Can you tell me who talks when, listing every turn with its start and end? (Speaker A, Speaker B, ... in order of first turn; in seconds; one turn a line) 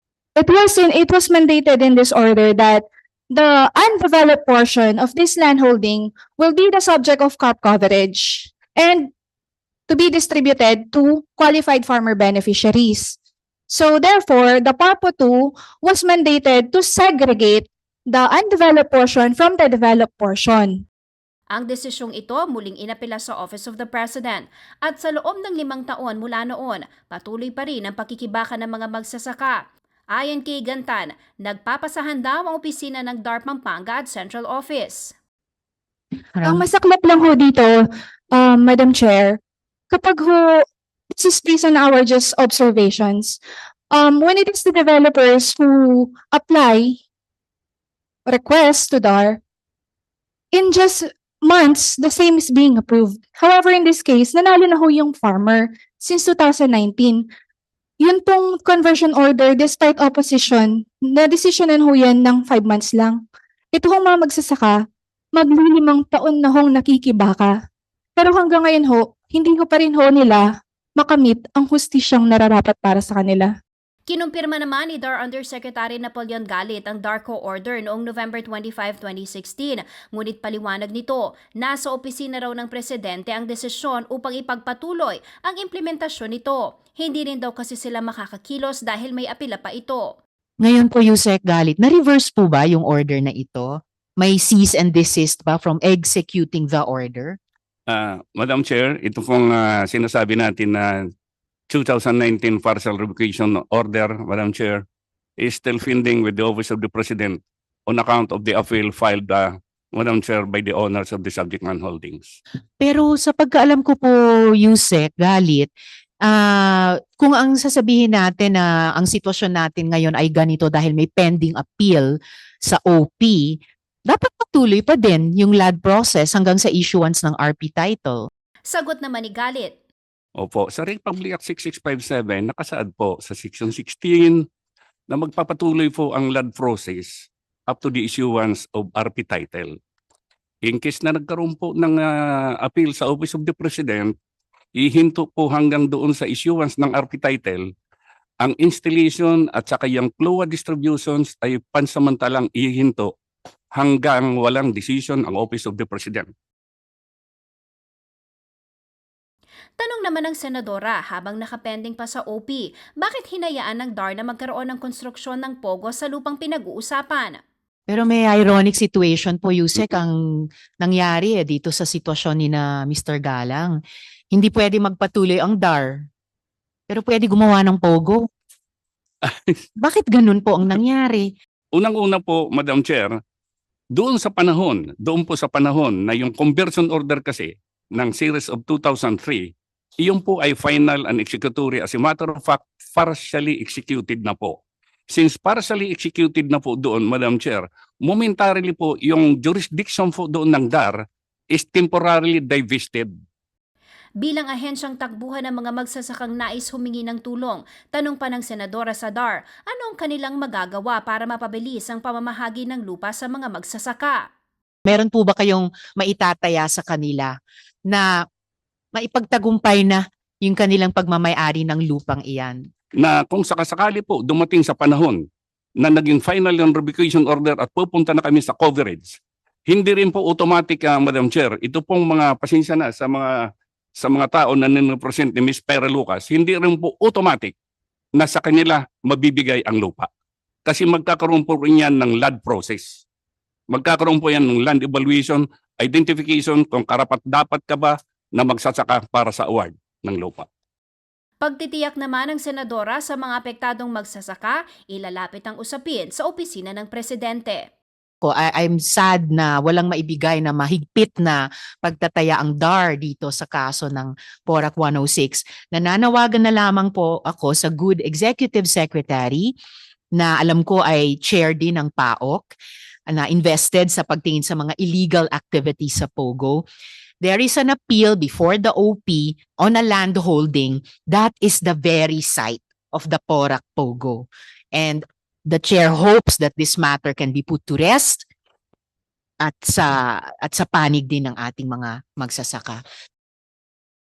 Speaker A: 0.4-9.1
Speaker A: 9.9-13.2
Speaker A: 13.7-20.8
Speaker B: 21.5-29.6
Speaker B: 30.1-35.1
Speaker C: 36.4-36.6
Speaker A: 36.4-39.4
Speaker A: 39.9-43.4
Speaker A: 43.9-47.0
Speaker A: 48.3-49.4
Speaker A: 50.5-57.3
Speaker A: 58.0-63.2
Speaker A: 63.7-64.8
Speaker A: 65.3-67.5
Speaker A: 68.2-70.4
Speaker A: 71.0-73.5
Speaker B: 74.1-90.1
Speaker C: 90.6-97.4
Speaker D: 97.9-101.1
Speaker D: 101.7-104.8
Speaker D: 105.4-112.4
Speaker C: 112.8-115.7
Speaker C: 116.2-122.1
Speaker C: 122.7-128.3
Speaker B: 128.7-129.7
Speaker D: 130.4-134.4
Speaker D: 135.1-139.8
Speaker D: 140.7-142.1
Speaker D: 142.6-144.1
Speaker D: 144.8-147.7
Speaker D: 148.4-153.1
Speaker D: 153.7-156.3
Speaker B: 159.8-167.4
Speaker C: 167.9-170.2
Speaker C: 170.8-173.7
Speaker C: 174.3-176.0
Speaker C: 176.9-178.3
Speaker D: 179.2-179.6
Speaker C: 179.8-181.3
Speaker D: 181.7-183.2
Speaker D: 183.9-201.0
Speaker D: 201.5-203.1
Speaker B: 204.2-214.2
Speaker C: 214.9-217.3
Speaker C: 218.9-222.6
Speaker D: 223.0-225.2
Speaker D: 225.8-233.3
Speaker D: 234.0-237.5
Speaker D: 238.2-240.1
Speaker D: 240.7-243.0
Speaker D: 243.7-250.5
Speaker B: 251.4-257.7
Speaker C: 258.2-269.5
Speaker C: 270.1-272.5
Speaker C: 273.1-276.7
Speaker C: 277.2-288.2
Speaker C: 289.4-292.8